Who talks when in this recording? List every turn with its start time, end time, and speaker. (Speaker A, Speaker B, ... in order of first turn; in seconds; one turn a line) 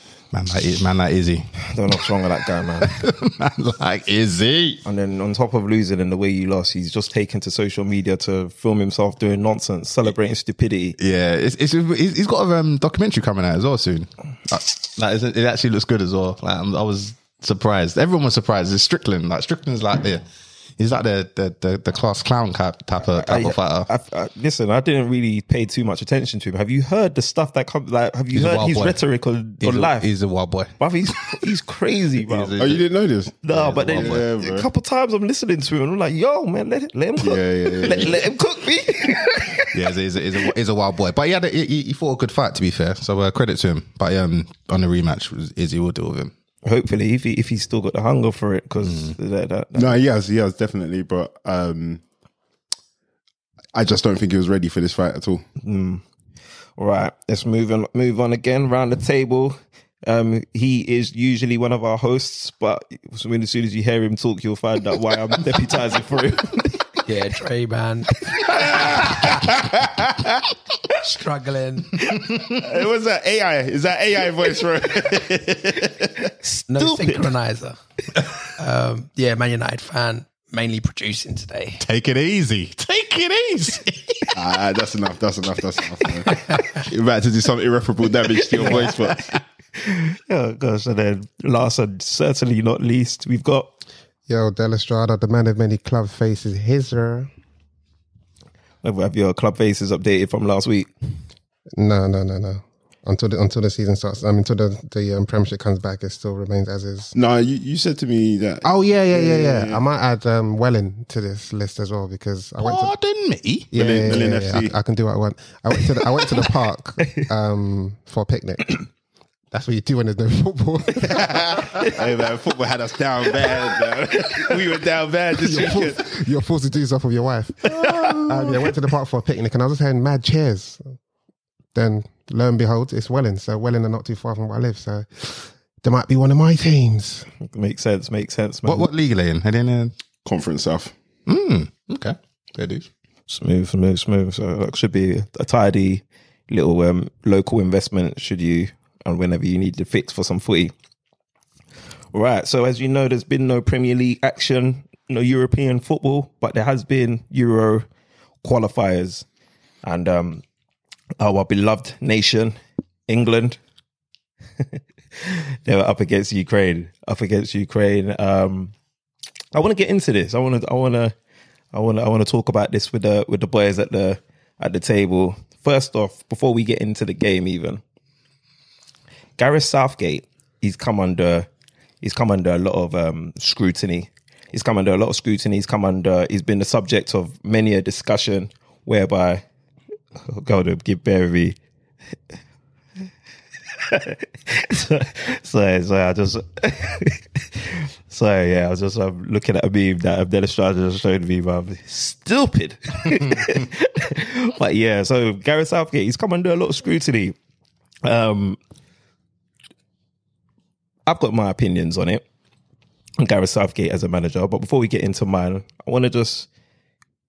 Speaker A: 0.3-1.7
Speaker B: 1.7-3.0
Speaker A: 2.8-4.8
Speaker B: 4.8-11.0
Speaker A: 11.0-20.2
Speaker A: 20.8-23.9
Speaker B: 23.1-30.1
Speaker A: 28.3-29.0
Speaker A: 29.6-31.4
Speaker B: 30.8-32.8
Speaker A: 32.3-32.9
Speaker C: 32.6-34.7
Speaker B: 33.4-39.8
Speaker A: 33.5-34.2
Speaker C: 37.2-38.2
Speaker A: 39.7-46.3
Speaker B: 46.6-50.0
Speaker A: 48.8-49.1
Speaker C: 49.8-52.0
Speaker C: 53.7-55.4
Speaker B: 55.6-56.0
Speaker B: 56.8-66.8
Speaker D: 67.1-69.6
Speaker C: 68.8-69.9
Speaker D: 70.9-72.4
Speaker C: 72.4-76.3
Speaker B: 76.5-77.3
Speaker D: 76.6-77.8
Speaker D: 78.6-81.8
Speaker A: 81.8-84.4
Speaker C: 84.3-89.3
Speaker D: 86.3-86.6
Speaker B: 88.6-88.8
Speaker B: 89.8-93.7
Speaker E: 94.3-97.3
Speaker B: 98.8-100.9
Speaker E: 101.8-107.2
Speaker C: 107.1-109.8
Speaker E: 108.6-112.9
Speaker A: 112.6-113.7
Speaker E: 113.7-118.8
Speaker C: 113.8-114.7
Speaker E: 119.5-121.9
Speaker C: 121.1-126.1
Speaker B: 123.5-123.9
Speaker E: 125.4-130.9
Speaker E: 131.7-137.3
Speaker B: 137.5-138.9
Speaker A: 138.7-139.9
Speaker C: 140.2-140.9
Speaker A: 141.3-142.9
Speaker B: 143.3-150.7
Speaker B: 152.1-157.9
Speaker B: 158.4-159.2
Speaker B: 159.8-160.4
Speaker B: 161.2-162.6
Speaker B: 163.1-163.6
Speaker B: 164.7-168.7
Speaker B: 169.5-171.1
Speaker B: 171.7-177.8
Speaker B: 179.4-181.5
Speaker B: 182.0-189.4
Speaker B: 190.3-191.6
Speaker B: 193.8-207.3
Speaker B: 208.0-208.6
Speaker B: 211.1-212.2
Speaker B: 213.2-216.5